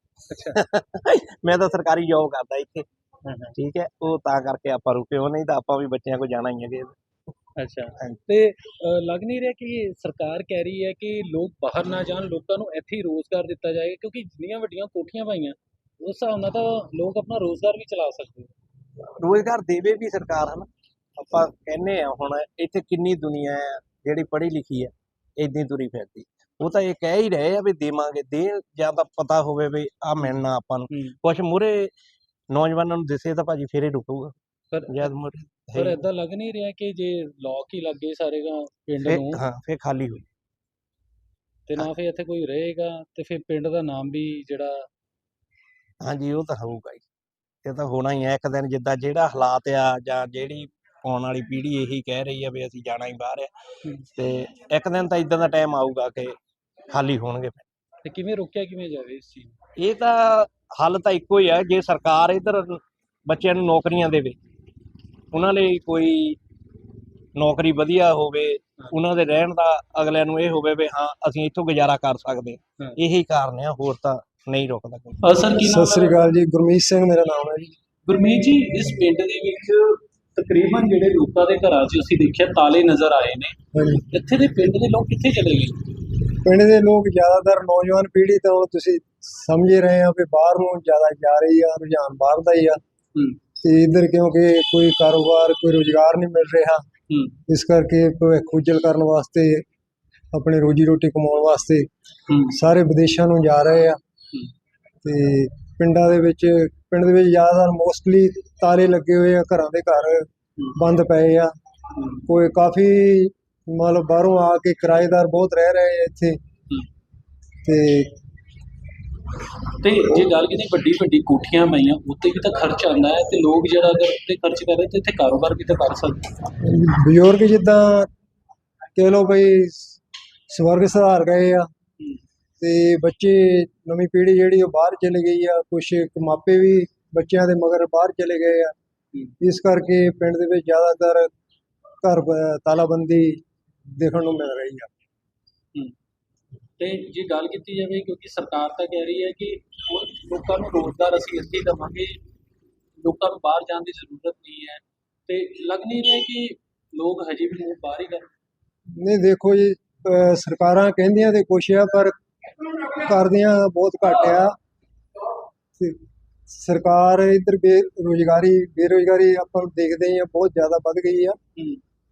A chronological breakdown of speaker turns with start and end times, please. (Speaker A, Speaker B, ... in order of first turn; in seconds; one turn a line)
Speaker A: 0.3-0.6
Speaker B: 0.6-2.9
Speaker A: 3.2-3.6
Speaker B: 3.6-7.0
Speaker A: 7.6-18.5
Speaker B: 19.2-20.7
Speaker B: 21.2-31.9
Speaker A: 30.2-31.2
Speaker B: 32.5-34.3
Speaker A: 34.7-39.4
Speaker B: 34.9-36.0
Speaker B: 39.1-40.2
Speaker A: 41.7-44.9
Speaker B: 46.0-47.0
Speaker B: 47.6-53.5
Speaker B: 54.2-56.4
Speaker B: 56.9-57.7
Speaker A: 58.0-59.5
Speaker B: 59.8-64.4
Speaker B: 65.3-66.4
Speaker B: 67.4-75.1
Speaker A: 75.2-76.2
Speaker C: 75.6-77.7
Speaker A: 78.1-83.6
Speaker C: 83.7-84.0
Speaker A: 84.1-85.8
Speaker C: 86.4-92.8
Speaker C: 93.6-96.8
Speaker A: 97.1-97.4
Speaker C: 97.5-99.6
Speaker C: 100.3-101.9
Speaker A: 102.3-102.5
Speaker C: 102.5-104.0
Speaker C: 105.0-111.5
Speaker A: 112.0-112.2
Speaker C: 112.3-116.4
Speaker C: 117.7-118.1
Speaker A: 119.7-126.3
Speaker C: 126.6-128.1
Speaker C: 129.0-130.0
Speaker C: 130.5-131.7
Speaker C: 132.6-138.7
Speaker C: 139.4-141.3
Speaker C: 142.0-143.4
Speaker C: 144.0-144.9
Speaker A: 146.8-152.2
Speaker A: 153.0-158.3
Speaker C: 159.0-162.2
Speaker C: 162.8-164.6
Speaker C: 165.8-171.4